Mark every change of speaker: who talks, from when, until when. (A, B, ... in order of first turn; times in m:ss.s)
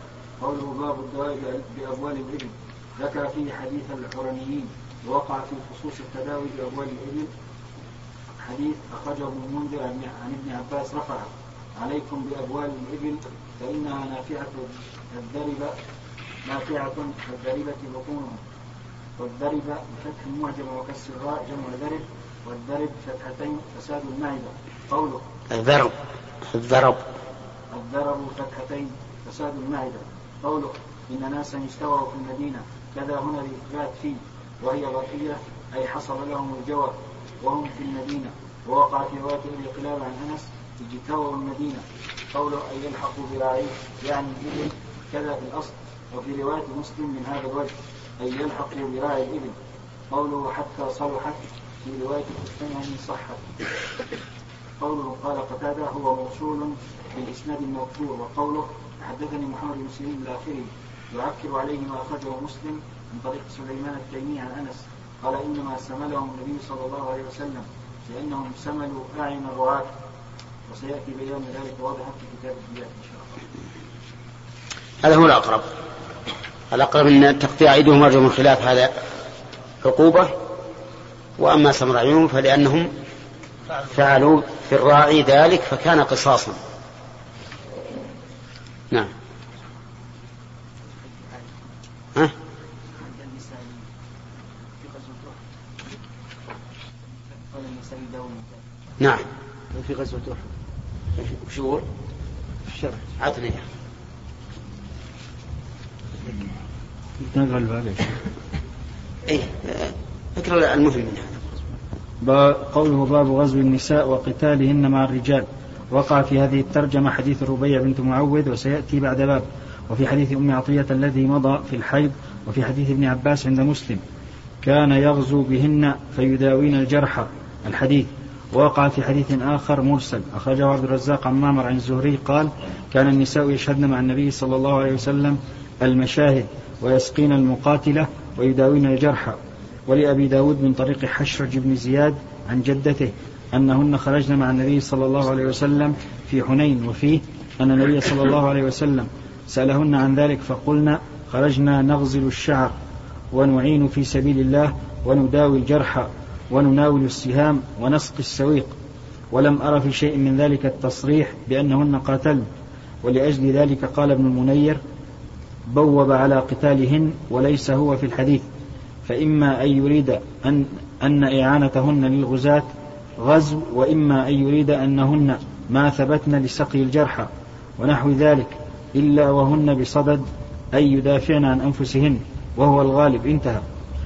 0:00.4-0:07.3 A
0:08.4-0:15.7 A
0:16.4-0:18.4 A
0:19.2-0:25.2 A
0:25.5-0:25.9 B
0:26.4-0:27.0 B
0:27.7-0:49.6 A
0:50.1-0:53.4 A
0:54.8-1:09.9 A
1:10.7-1:13.4 A
1:15.0-1:15.7 B
1:16.7-1:18.9 B
1:19.8-1:20.3 B
1:21.4-1:22.9 B
1:23.8-1:26.6 B
1:31.0-1:31.5 C
1:33.0-1:33.8 C
1:34.8-1:35.3 C
1:37.5-1:38.5 C
1:39.0-1:39.3 B
1:39.9-1:40.3 C
1:41.2-1:41.8 B
1:43.2-1:43.6 B
1:47.2-1:48.2 A
1:49.2-1:51.4 B
1:52.2-2:04.0 A
2:04.6-2:32.8 A
2:33.3-2:38.7 A
2:39.3-2:42.5 A
2:43.0-2:44.8 A
2:45.7-2:48.4 A
2:49.0-3:03.6 A